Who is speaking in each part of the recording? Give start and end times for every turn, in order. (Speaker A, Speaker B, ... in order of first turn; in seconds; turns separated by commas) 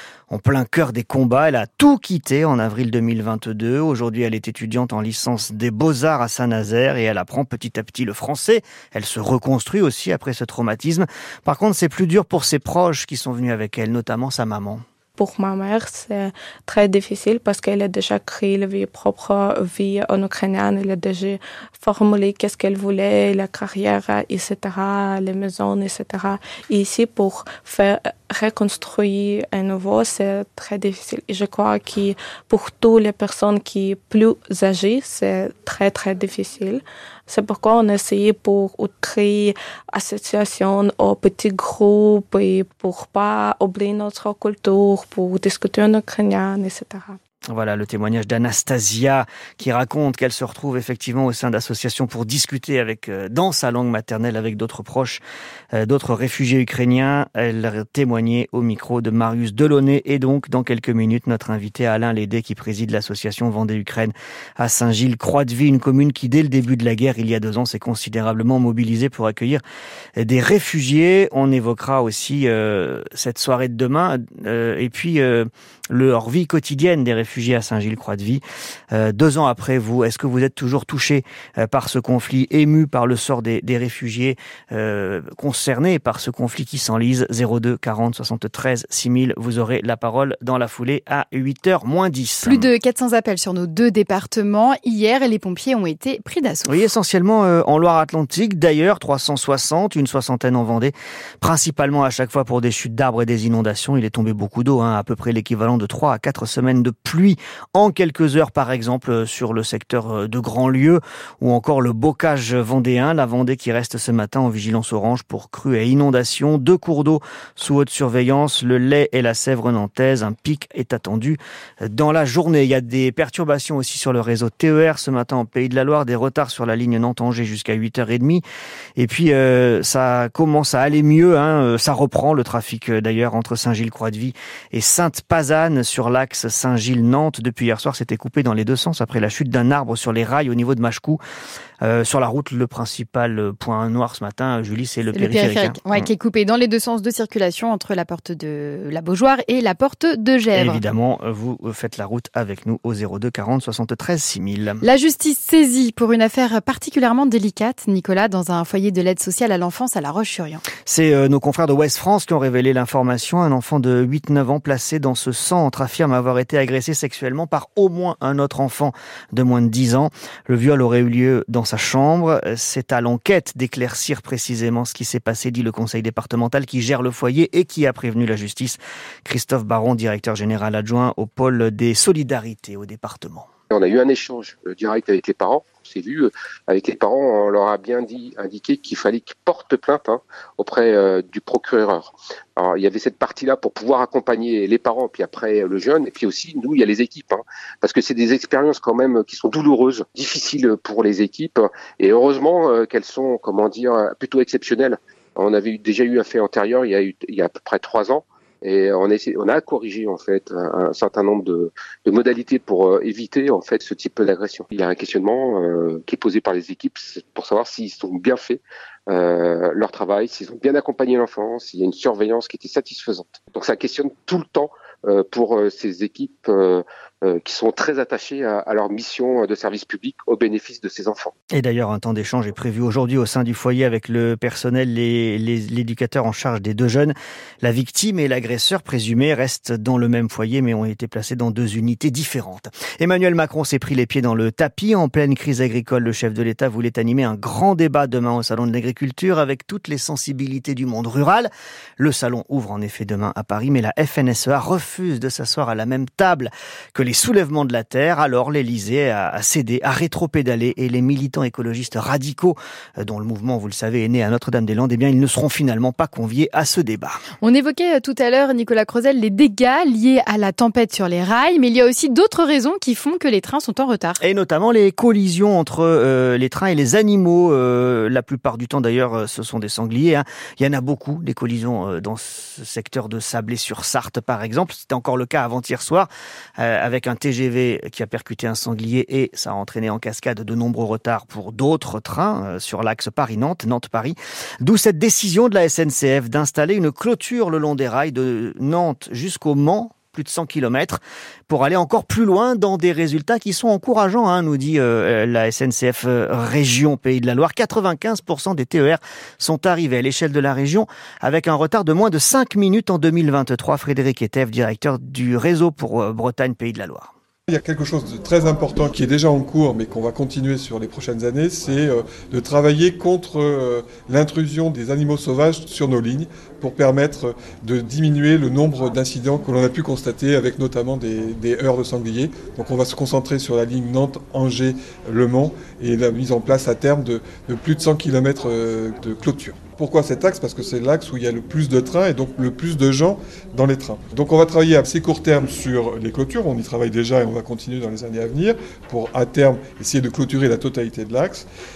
Speaker A: 0.3-14.8, Speaker B: 15.2-47.2, Speaker A: 47.5-55.2, Speaker A: 55.7-69.6, Speaker A: 70.2-92.7, Speaker C: 92.4-96.8, Speaker A: 96.7-128.4, Speaker A: 129.0-141.2, Speaker A: 141.8-146.1, Speaker C: 145.1-150.8, Speaker A: 150.5-154.8, Speaker C: 154.8-160.6, Speaker A: 160.8-183.5, Speaker D: 183.7-231.3, Speaker A: 231.6-267.2, Speaker C: 267.4-274.2, Speaker A: 274.2-317.1, Speaker E: 317.5-351.5